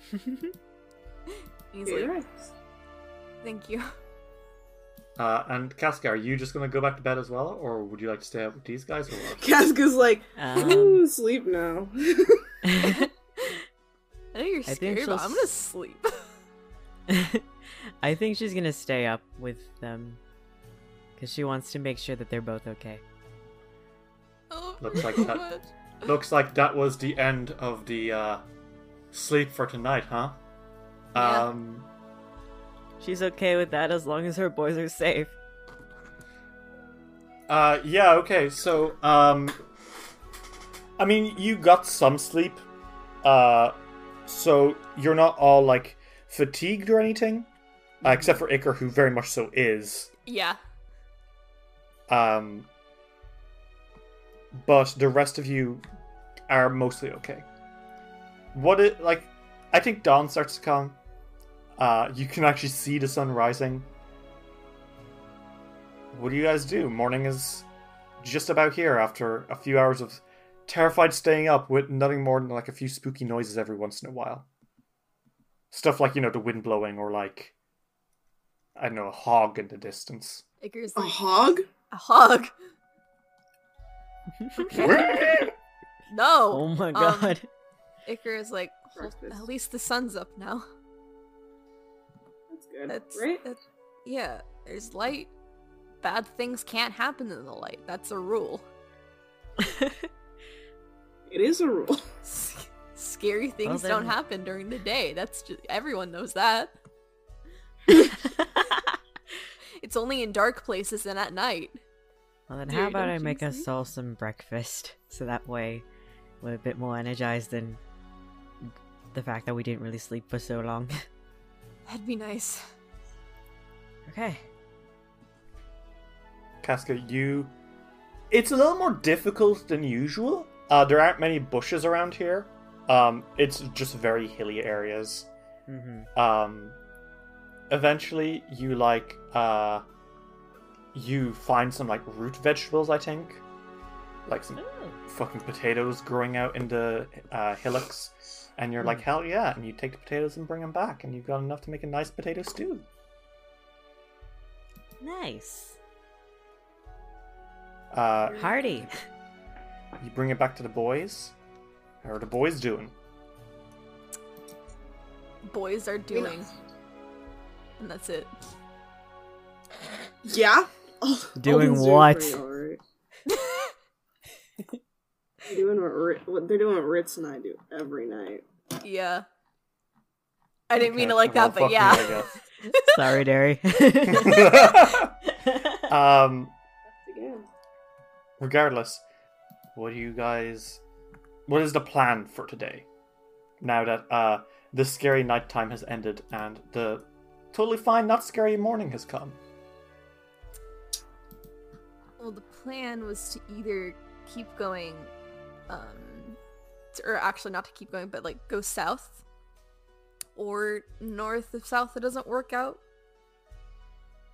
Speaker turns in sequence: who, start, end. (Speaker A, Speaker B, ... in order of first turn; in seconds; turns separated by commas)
Speaker A: 1.7-2.1, Speaker B: 1.9-2.5, Speaker A: 3.4-3.9, Speaker C: 5.2-9.4, Speaker B: 9.4-12.4, Speaker D: 10.4-11.0, Speaker D: 12.6-13.1, Speaker A: 14.3-16.2, Speaker D: 14.7-15.5, Speaker D: 17.1-17.4, Speaker D: 18.0-20.2, Speaker D: 21.2-23.0, Speaker A: 24.5-25.7, Speaker C: 24.8-25.5, Speaker C: 26.0-28.4, Speaker C: 29.1-30.4, Speaker C: 31.1-31.9, Speaker A: 31.2-31.5, Speaker D: 33.0-35.4, Speaker C: 37.5-39.6, Speaker C: 41.0-42.6, Speaker C: 43.2-47.5, Speaker C: 48.0-50.1, Speaker A: 50.3-50.6, Speaker C: 52.1-52.7, Speaker C: 54.5-55.8, Speaker C: 56.5-57.5, Speaker C: 58.5-61.0, Speaker C: 61.8-63.9, Speaker C: 66.1-67.7, Speaker C: 68.2-74.5, Speaker C: 75.7-77.5, Speaker C: 78.8-80.4, Speaker A: 80.6-81.2, Speaker B: 81.0-81.7, Speaker A: 81.9-82.5, Speaker D: 84.4-84.9, Speaker A: 84.6-85.3, Speaker C: 84.7-85.5, Speaker A: 86.1-87.4, Speaker D: 86.5-87.5, Speaker A: 88.1-90.7, Speaker B: 89.0-89.4, Speaker B: 92.5-93.4, Speaker A: 92.9-95.3, Speaker A: 96.0-98.7, Speaker D: 99.6-100.0, Speaker B: 101.3-102.0, Speaker A: 102.3-106.7, Speaker D: 103.7-104.2, Speaker D: 108.1-109.0, Speaker A: 109.8-111.8, Speaker D: 112.5-115.8, Speaker A: 112.7-113.7, Speaker D: 116.4-117.8, Speaker D: 118.7-121.0, Speaker A: 121.9-122.7, Speaker D: 124.1-124.5, Speaker C: 126.6-127.5, Speaker C: 128.3-135.3, Speaker D: 135.7-136.1, Speaker C: 136.2-136.8, Speaker C: 137.7-139.8, Speaker C: 140.9-143.4, Speaker C: 144.3-152.9, Speaker D: 144.6-145.0, Speaker D: 155.0-155.8, Speaker C: 157.9-158.9, Speaker D: 158.3-158.9, Speaker C: 160.0-161.3, Speaker C: 162.0-162.9, Speaker A: 165.4-166.5, Speaker B: 166.1-166.4, Speaker A: 167.8-168.3, Speaker B: 170.2-172.8, Speaker D: 171.4-172.4, Speaker A: 173.3-173.7, Speaker B: 175.4-178.4, Speaker A: 178.8-179.2, Speaker A: 180.7-182.9, Speaker C: 180.8-182.3, Speaker D: 182.7-184.8, Speaker C: 184.1-185.1, Speaker D: 185.4-185.8, Speaker C: 185.9-186.5, Speaker B: 186.9-187.5, Speaker C: 188.4-189.0, Speaker C: 189.8-190.8, Speaker C: 191.5-192.9, Speaker C: 193.6-199.4, Speaker A: 202.2-205.1, Speaker A: 205.7-206.4, Speaker A: 206.9-209.2, Speaker A: 210.3-212.8